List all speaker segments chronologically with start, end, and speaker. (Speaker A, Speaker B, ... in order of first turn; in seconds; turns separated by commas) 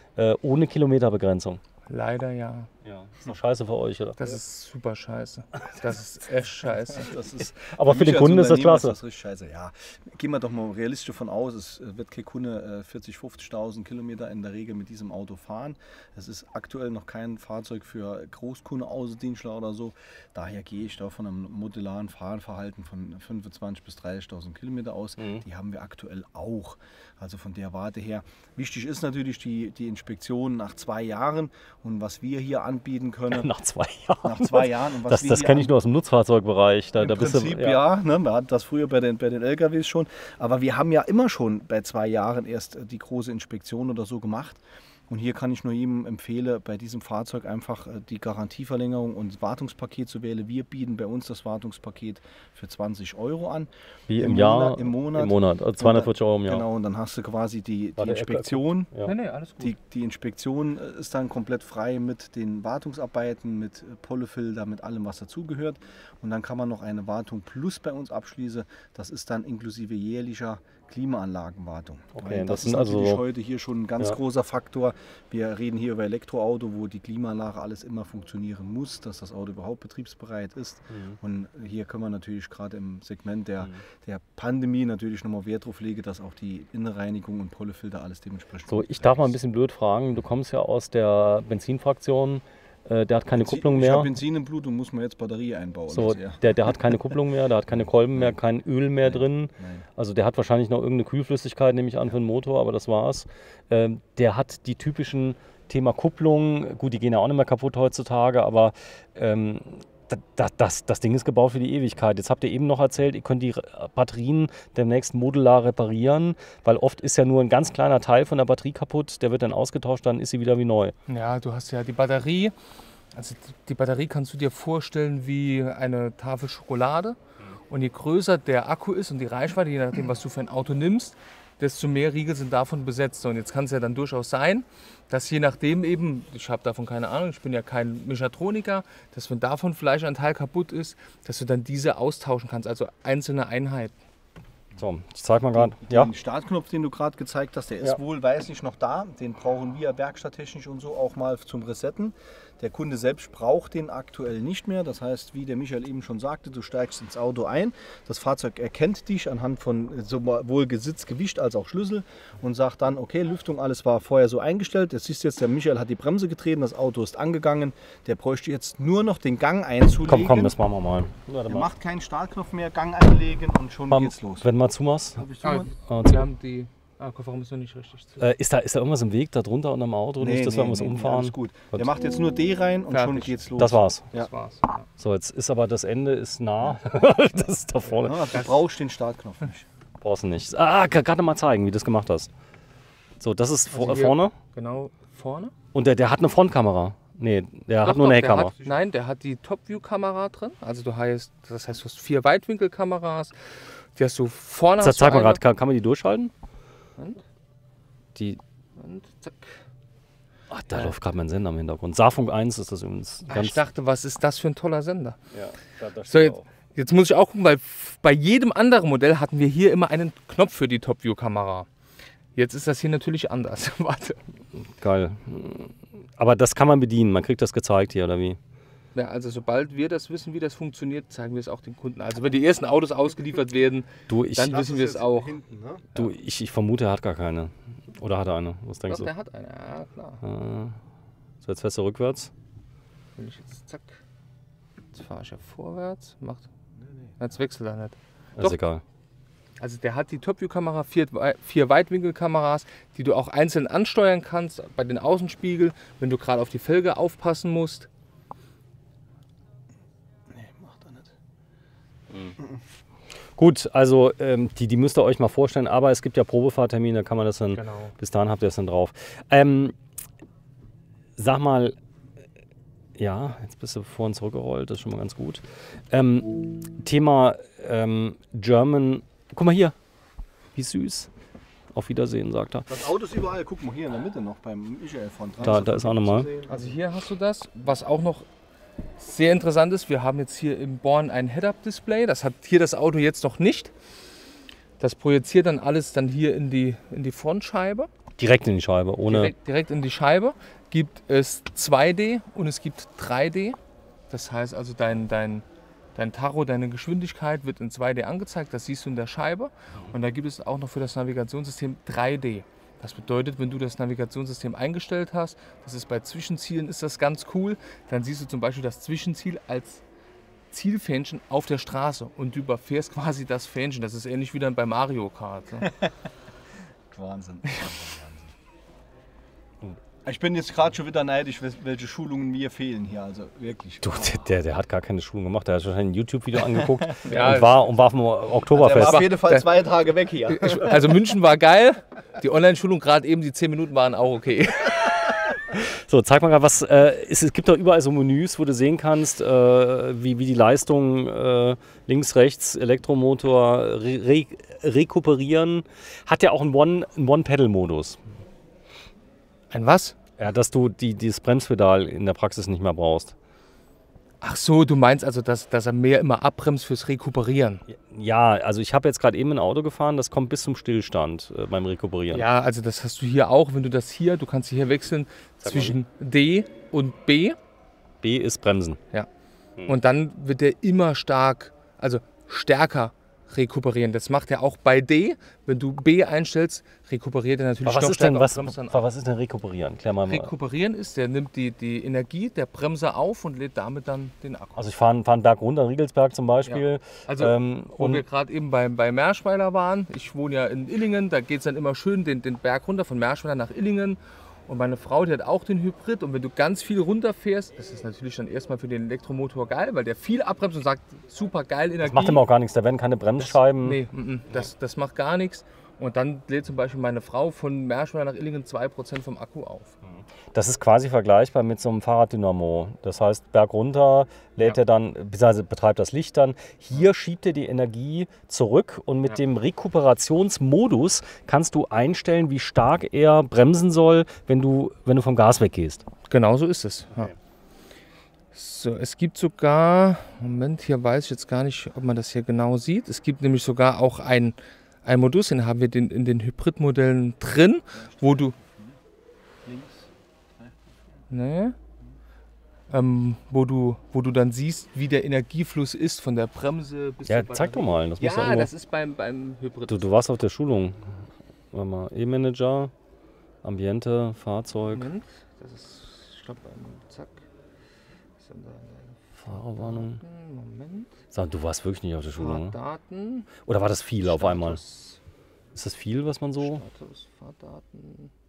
Speaker A: 0.2-1.6, Speaker B: 1.9-2.7, Speaker A: 2.8-4.4, Speaker B: 4.2-7.1, Speaker C: 6.9-33.5, Speaker A: 7.7-9.0, Speaker A: 33.3-37.8, Speaker C: 34.2-35.7, Speaker C: 37.0-58.9, Speaker A: 54.1-56.6, Speaker A: 58.0-59.1, Speaker B: 59.0-59.7, Speaker C: 59.6-89.3, Speaker A: 72.1-73.2, Speaker A: 80.9-81.2, Speaker A: 88.7-94.1, Speaker C: 93.3-96.4, Speaker A: 95.9-120.9, Speaker C: 99.0-99.8, Speaker B: 121.1-122.5, Speaker B: 123.1-127.2, Speaker B: 127.7-143.9, Speaker A: 144.8-146.1, Speaker C: 145.5-170.5, Speaker A: 170.0-171.7, Speaker C: 171.5-174.5, Speaker A: 173.9-175.2, Speaker C: 175.2-175.7, Speaker B: 175.4-178.2, Speaker A: 175.8-176.3, Speaker A: 178.2-181.9, Speaker C: 180.2-184.3, Speaker B: 182.9-183.5, Speaker A: 183.6-184.0, Speaker B: 184.1-184.9, Speaker A: 185.0-188.4, Speaker C: 188.0-189.7, Speaker A: 190.0-192.3, Speaker A: 193.2-194.3, Speaker B: 193.7-195.5, Speaker A: 195.7-198.5, Speaker B: 197.8-203.3, Speaker B: 203.9-205.4, Speaker A: 204.8-206.3, Speaker B: 208.8-209.6, Speaker A: 210.5-213.6, Speaker B: 213.3-215.2, Speaker A: 215.3-216.4, Speaker B: 216.1-221.7, Speaker B: 222.3-224.2, Speaker A: 224.8-228.4, Speaker B: 228.9-235.3, Speaker A: 234.1-234.6, Speaker C: 234.4-236.0, Speaker A: 235.9-239.1, Speaker B: 238.9-240.2, Speaker A: 240.2-240.8, Speaker A: 241.4-242.3, Speaker B: 243.2-244.0, Speaker B: 244.9-246.5, Speaker C: 246.8-247.1, Speaker B: 247.2-248.6, Speaker A: 248.4-248.8, Speaker B: 249.6-257.9, Speaker C: 260.3-261.1, Speaker A: 263.4-269.8, Speaker B: 267.5-267.9, Speaker A: 271.2-271.7, Speaker A: 273.0-279.7, Speaker A: 280.5-281.1, Speaker A: 281.7-282.7, Speaker C: 282.7-286.7, Speaker A: 285.4-286.3, Speaker B: 286.5-288.2, Speaker B: 289.0-293.7, Speaker B: 294.8-297.9, Speaker A: 298.2-299.3, Speaker B: 299.1-303.6, Speaker B: 304.1-319.8, Speaker B: 320.5-325.7, Speaker C: 326.9-328.3, Speaker C: 330.0-334.2, Speaker A: 333.8-339.0, Speaker C: 336.6-337.4, Speaker B: 337.1-337.6, Speaker C: 338.5-341.0, Speaker B: 338.7-339.5, Speaker B: 340.3-345.3, Speaker A: 345.5-358.0, Speaker B: 359.5-359.9, Speaker A: 360.2-363.1, Speaker B: 364.2-367.6, Speaker A: 367.7-372.2, Speaker B: 372.1-377.4, Speaker A: 375.4-375.8, Speaker A: 378.0-378.8, Speaker B: 379.6-388.8, Speaker A: 387.6-390.3, Speaker B: 390.1-394.6, Speaker A: 394.6-398.0, Speaker B: 396.5-412.2, Speaker A: 411.8-413.8, Speaker B: 413.2-419.7, Speaker A: 419.9-435.9, Speaker B: 436.1-437.1, Speaker B: 438.3-448.3, Speaker C: 447.8-448.8, Speaker C: 449.4-450.5, Speaker B: 451.1-451.5, Speaker B: 452.7-459.9, Speaker A: 457.1-458.5, Speaker A: 459.7-460.9, Speaker A: 461.5-462.7, Speaker A: 463.4-464.9, Speaker B: 464.7-467.2, Speaker B: 468.2-470.9, Speaker A: 469.2-470.0, Speaker A: 471.1-472.6, Speaker B: 472.2-473.3, Speaker A: 473.4-474.6, Speaker B: 474.0-475.0, Speaker A: 475.5-476.6, Speaker B: 476.4-478.1